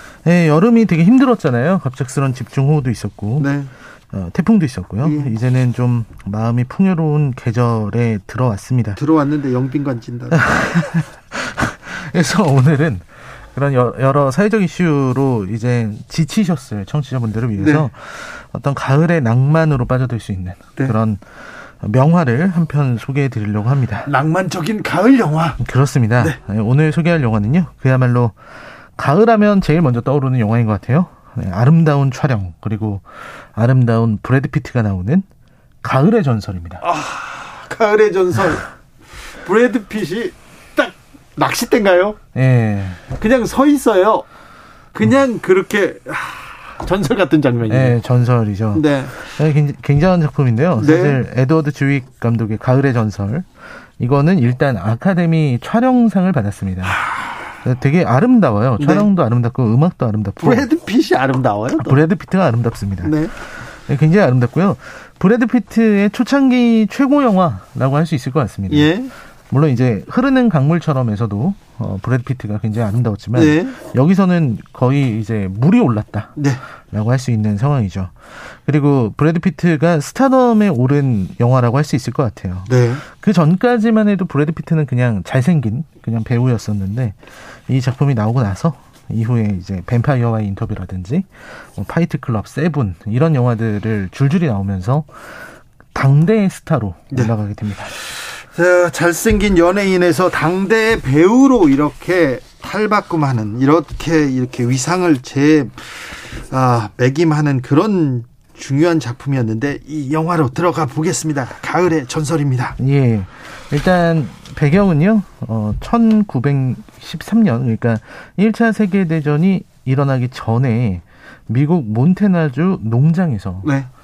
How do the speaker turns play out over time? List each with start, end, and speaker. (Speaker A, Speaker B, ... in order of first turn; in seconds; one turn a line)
Speaker A: 0.2-3.5
Speaker B: 3.4-3.7
Speaker A: 4.1-9.0
Speaker B: 5.0-5.3
Speaker B: 9.0-10.5
Speaker A: 10.3-21.2
Speaker B: 17.6-17.9
Speaker A: 21.8-24.1
Speaker B: 24.1-25.6
Speaker A: 25.6-28.4
Speaker A: 29.0-35.3
Speaker A: 35.8-36.8
Speaker B: 36.8-38.7
Speaker B: 39.4-42.2
Speaker A: 42.3-43.0
Speaker B: 43.1-44.2
Speaker B: 44.9-48.0
Speaker A: 47.7-53.5
Speaker B: 48.7-49.3
Speaker B: 50.8-51.2
Speaker A: 54.0-57.0
Speaker B: 57.0-57.4
Speaker A: 57.6-60.7
Speaker B: 58.8-59.1
Speaker B: 60.4-62.0
Speaker A: 61.8-63.2
Speaker B: 63.0-63.3
Speaker A: 63.9-68.9
Speaker B: 68.7-69.1
Speaker A: 69.5-76.4
Speaker B: 73.3-73.8
Speaker B: 76.4-76.6
Speaker A: 76.9-95.1
Speaker B: 82.7-83.0
Speaker A: 95.9-97.9
Speaker B: 98.0-112.8
Speaker A: 112.8-123.7
Speaker B: 123.6-123.9